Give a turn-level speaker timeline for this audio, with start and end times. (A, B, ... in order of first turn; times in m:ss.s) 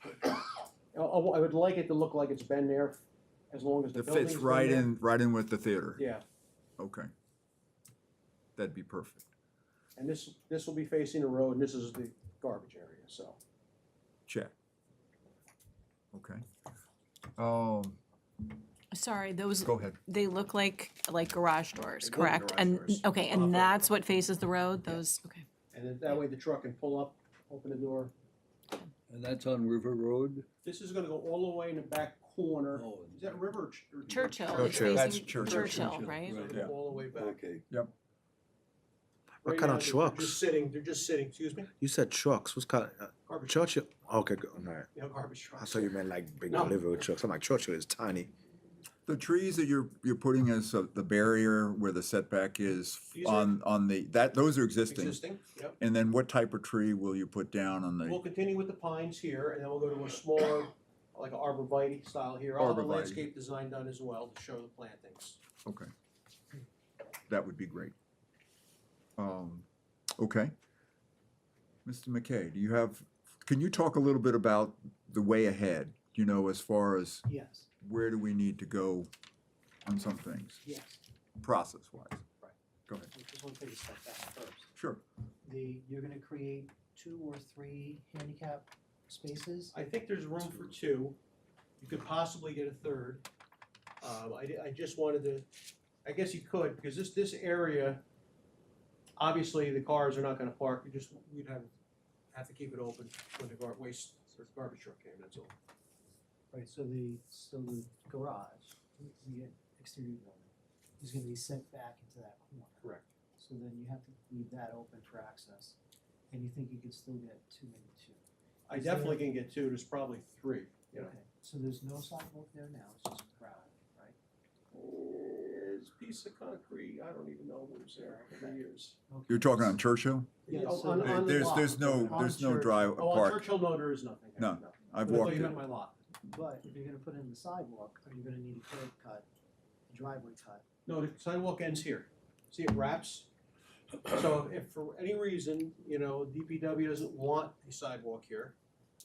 0:00.2-0:03.0 A
0:03.5-0:04.9 A
0:03.9-0:06.0 B
0:06.0-0:06.2 A
0:06.8-0:07.1 B
0:08.6-0:09.3 B
0:10.0-0:13.4 A
0:14.3-0:14.5 B
0:16.1-0:16.4 B
0:17.4-0:18.0 B
0:18.9-0:25.4 C
0:19.6-0:20.0 B
0:22.0-0:23.9 A
0:22.1-0:22.8 B
0:25.7-0:28.1 A
0:29.1-0:30.4 D
0:30.6-0:37.4 A
0:32.7-0:33.4 D
0:34.1-0:36.4 C
0:34.5-0:35.1 E
0:34.9-0:35.8 B
0:35.4-0:37.7 D
0:39.4-0:40.4 E
0:39.4-0:41.7 A
0:41.8-0:44.9 E
0:43.3-0:43.7 A
0:44.9-0:46.8 A
0:45.6-0:48.3 E
0:49.0-0:55.2 B
0:53.1-0:53.5 A
0:54.9-0:55.8 A
0:55.8-0:58.2 B
0:58.0-1:05.4 A
1:02.6-1:03.2 B
1:05.6-1:05.9 B
1:07.3-1:07.9 B
1:09.2-1:09.6 B
1:10.2-1:10.5 B
1:11.8-1:17.2 B
1:17.3-1:17.7 F
1:17.8-1:19.1 B
1:19.8-1:20.6 B
1:20.6-1:21.0 F
1:21.4-1:22.2 B
1:23.1-1:24.7 F
1:24.7-1:25.0 B
1:25.4-1:29.7 F
1:29.7-1:31.2 A
1:31.8-1:33.2 A
1:34.0-1:35.5 A
1:36.0-1:38.0 A
1:39.2-1:41.7 A
1:42.3-1:45.5 A
1:46.5-1:52.8 F
1:52.8-1:53.1 A
1:53.4-1:55.8 F
1:56.3-1:59.3 F
1:58.7-2:01.1 A
2:00.9-2:04.2 F
2:04.7-2:09.0 A
2:08.0-2:09.8 F
2:09.3-2:10.4 B
2:10.4-2:12.4 A
2:10.5-2:13.0 F
2:11.0-2:13.4 B
2:13.0-2:16.0 A
2:14.4-2:15.6 B
2:16.3-2:19.2 F
2:19.9-2:20.6 F
2:20.8-2:23.3 A
2:24.1-2:28.5 A